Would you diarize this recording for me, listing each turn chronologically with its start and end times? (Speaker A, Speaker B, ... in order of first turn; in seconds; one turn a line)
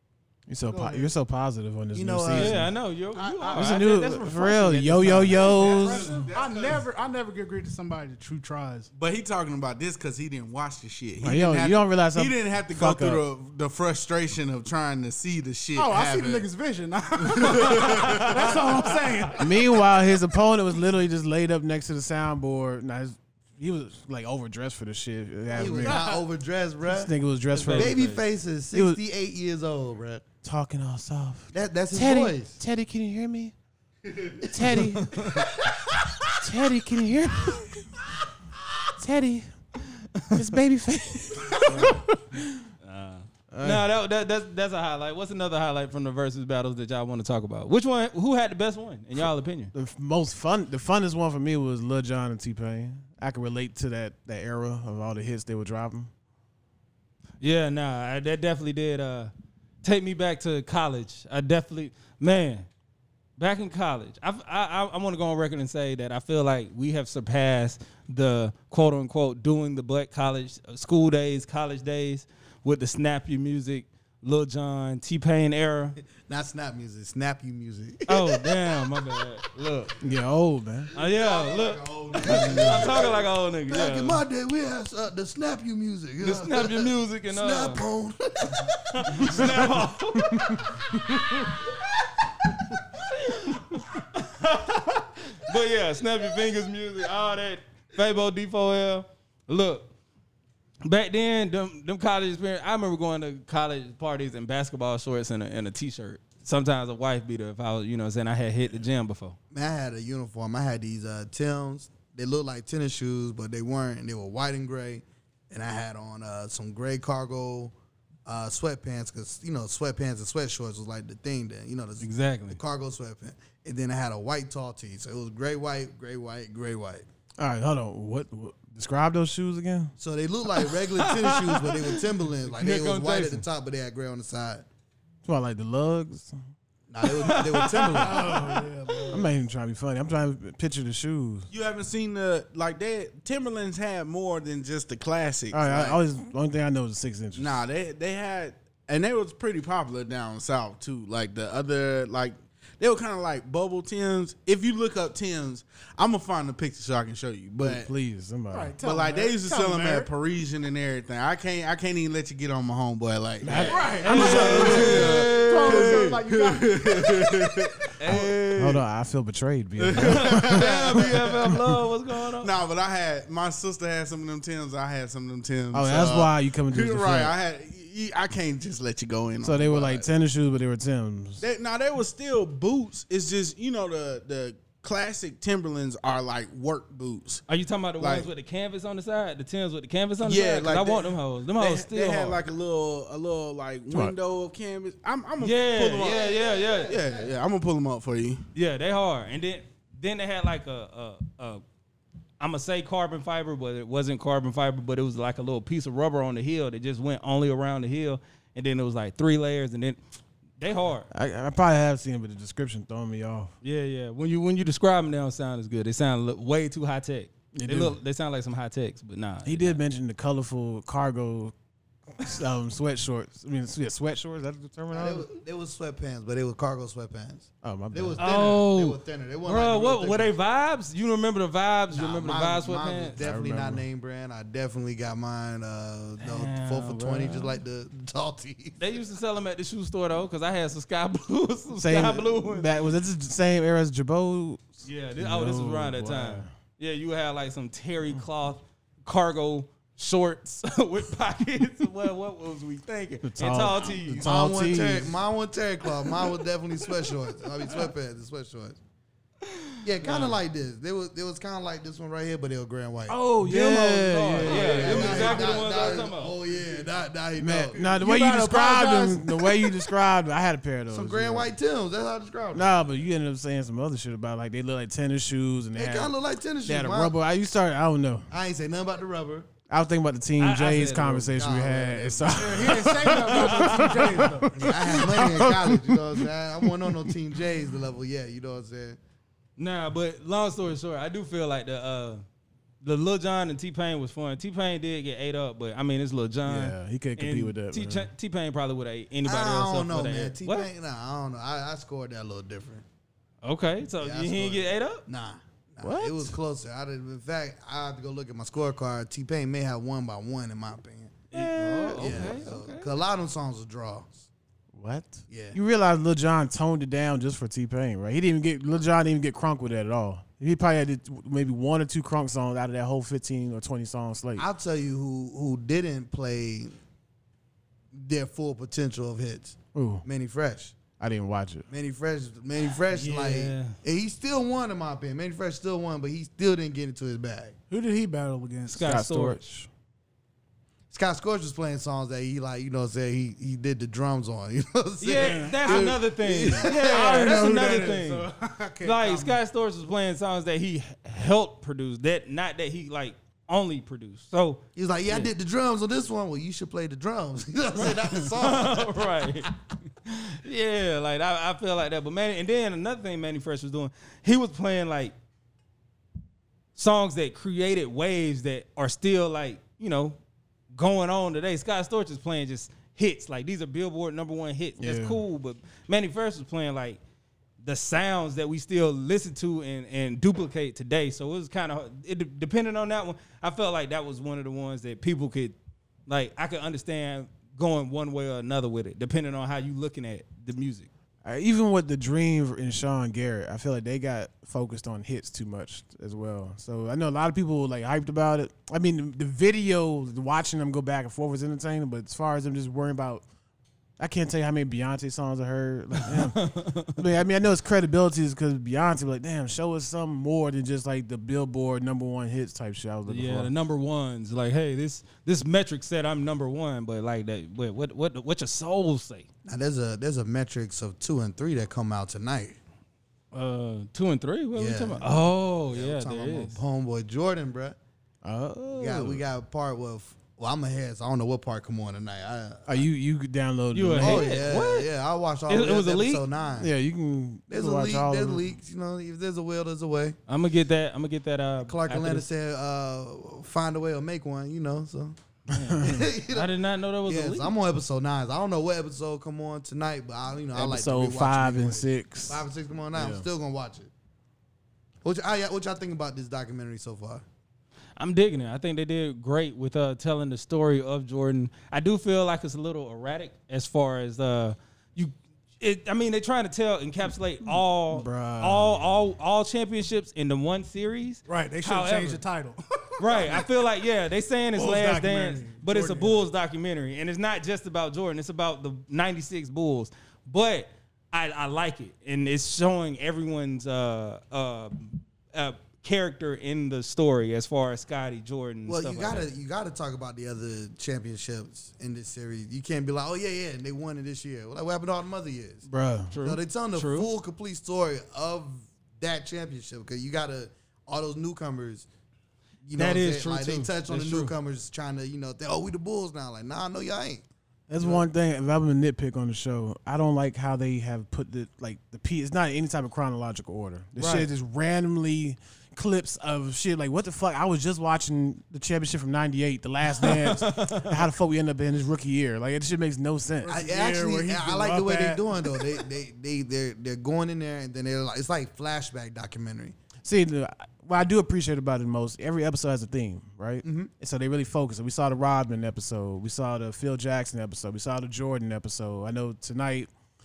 Speaker A: 0.5-2.7
Speaker B: 0.7-1.1
Speaker C: 1.9-2.7
Speaker D: 2.3-5.6
Speaker B: 3.2-3.8
Speaker A: 3.5-6.2
Speaker B: 5.3-8.9
Speaker E: 5.5-6.8
Speaker E: 8.9-16.5
Speaker A: 11.2-13.2
Speaker B: 15.8-19.8
Speaker E: 17.2-18.8
Speaker A: 19.4-26.1
Speaker C: 25.6-27.1
Speaker B: 25.7-26.2
Speaker A: 26.9-28.1
Speaker D: 27.5-28.2
Speaker C: 27.7-30.2
Speaker A: 28.7-29.0
Speaker A: 30.4-33.5
Speaker C: 31.5-32.6
Speaker A: 34.4-35.4
Speaker D: 35.0-35.5
Speaker A: 36.4-37.8
Speaker A: 39.0-39.5
Speaker A: 40.3-42.7
Speaker D: 41.6-42.0
Speaker D: 42.8-49.7
Speaker A: 43.5-43.9
Speaker A: 49.7-56.1
Speaker D: 57.4-59.3
Speaker D: 59.8-62.7
Speaker D: 63.4-76.0
Speaker C: 76.2-78.9
Speaker D: 78.1-79.9
Speaker A: 80.0-80.9
Speaker D: 80.9-84.2
Speaker C: 81.0-89.6
Speaker E: 81.6-82.8
Speaker D: 86.2-87.8
Speaker D: 88.9-90.5
Speaker A: 89.2-91.3
Speaker C: 91.3-91.6
Speaker D: 93.0-99.9
Speaker D: 100.8-109.4
Speaker C: 109.5-117.7
Speaker C: 118.3-127.1
Speaker D: 122.0-122.6
Speaker A: 127.4-129.9
Speaker C: 130.0-134.7
Speaker D: 131.0-132.0
Speaker D: 132.5-133.4
Speaker A: 135.2-136.4
Speaker C: 136.9-138.5
Speaker D: 137.1-138.2
Speaker B: 137.9-139.3
Speaker A: 139.1-141.5
Speaker E: 141.5-146.0
Speaker A: 145.5-147.6
Speaker E: 147.4-157.9
Speaker A: 157.6-158.8
Speaker B: 158.5-160.1
Speaker E: 158.8-168.8
Speaker A: 163.4-165.2
Speaker D: 163.5-166.1
Speaker B: 163.7-167.7
Speaker D: 168.0-168.7
Speaker A: 168.6-170.8
Speaker E: 169.8-171.2
Speaker D: 170.0-172.5
Speaker E: 172.4-180.1
Speaker A: 175.7-177.3
Speaker A: 179.4-181.4
Speaker E: 181.4-187.4
Speaker D: 187.5-192.4
Speaker E: 188.0-188.3
Speaker E: 190.2-196.3
Speaker A: 193.9-194.2
Speaker D: 195.4-197.0
Speaker C: 196.0-197.3
Speaker E: 196.9-198.4
Speaker D: 198.5-201.6
Speaker D: 202.4-210.0
Speaker D: 210.6-211.1
Speaker A: 211.1-213.5
Speaker D: 213.6-219.8
Speaker A: 217.5-218.0
Speaker A: 219.4-221.5
Speaker A: 222.1-225.3
Speaker C: 224.9-230.3
Speaker A: 227.6-228.3
Speaker D: 228.2-233.2
Speaker C: 231.9-238.8
Speaker A: 233.2-233.8
Speaker D: 236.2-237.6
Speaker D: 238.8-242.7
Speaker A: 241.8-246.5
Speaker D: 244.8-254.3
Speaker A: 253.2-255.2
Speaker C: 254.2-258.8
Speaker D: 259.6-260.4
Speaker C: 259.8-263.2
Speaker A: 263.1-265.6
Speaker D: 263.4-266.4
Speaker C: 264.3-269.2
Speaker A: 267.4-271.5
Speaker B: 268.8-269.0
Speaker C: 270.9-272.7
Speaker A: 272.5-278.3
Speaker C: 275.8-277.1
Speaker C: 278.3-279.5
Speaker A: 279.7-286.9
Speaker D: 280.4-281.3
Speaker C: 281.2-282.8
Speaker B: 282.3-284.8
Speaker D: 283.3-284.0
Speaker C: 284.5-289.0
Speaker D: 289.6-292.2
Speaker D: 292.8-300.7
Speaker A: 296.4-298.1
Speaker C: 299.2-302.9
Speaker D: 303.4-305.0
Speaker C: 304.0-314.2
Speaker A: 305.8-306.4
Speaker D: 311.3-312.9
Speaker A: 311.9-312.4
Speaker A: 314.7-324.5
Speaker C: 315.3-315.6
Speaker C: 324.4-326.8
Speaker C: 327.9-330.8
Speaker A: 329.7-330.0
Speaker A: 331.0-331.7
Speaker C: 331.7-337.6
Speaker D: 332.9-333.8
Speaker B: 337.7-338.9
Speaker D: 338.7-339.4
Speaker A: 338.7-339.7
Speaker C: 340.9-347.8
Speaker D: 345.0-348.3
Speaker B: 345.1-345.9
Speaker B: 346.6-349.4
Speaker D: 348.8-355.3
Speaker C: 354.8-359.5
Speaker D: 357.8-359.5
Speaker D: 360.1-365.1
Speaker D: 366.8-370.2
Speaker D: 370.7-377.0
Speaker A: 374.8-375.2
Speaker D: 377.6-385.6
Speaker D: 386.1-390.9
Speaker A: 391.2-403.2
Speaker A: 404.0-413.5
Speaker D: 406.1-407.0
Speaker D: 413.1-419.3
Speaker C: 419.4-422.6
Speaker D: 423.3-426.6
Speaker C: 424.6-427.8
Speaker A: 428.2-429.2
Speaker C: 428.8-432.8
Speaker A: 432.7-434.4
Speaker D: 433.7-434.9
Speaker C: 434.0-436.7
Speaker D: 435.5-436.2
Speaker A: 436.6-438.5
Speaker C: 437.5-440.2
Speaker D: 440.3-442.2
Speaker C: 441.6-445.2
Speaker D: 445.5-447.5
Speaker A: 445.6-446.1
Speaker C: 445.8-446.5
Speaker C: 447.1-453.9
Speaker A: 450.5-453.2
Speaker C: 455.0-457.2
Speaker D: 458.0-472.2
Speaker A: 467.9-469.0
Speaker B: 471.3-473.6
Speaker D: 473.0-489.3
Speaker B: 474.6-476.2
Speaker C: 488.7-495.7
Speaker A: 495.7-496.1
Speaker D: 496.1-497.1
Speaker C: 496.2-501.9
Speaker C: 502.6-507.2
Speaker D: 502.8-504.3
Speaker A: 507.7-523.6
Speaker C: 507.8-508.1
Speaker D: 520.0-521.0
Speaker B: 523.4-525.8
Speaker C: 523.5-529.8
Speaker A: 530.0-539.9
Speaker C: 533.6-533.9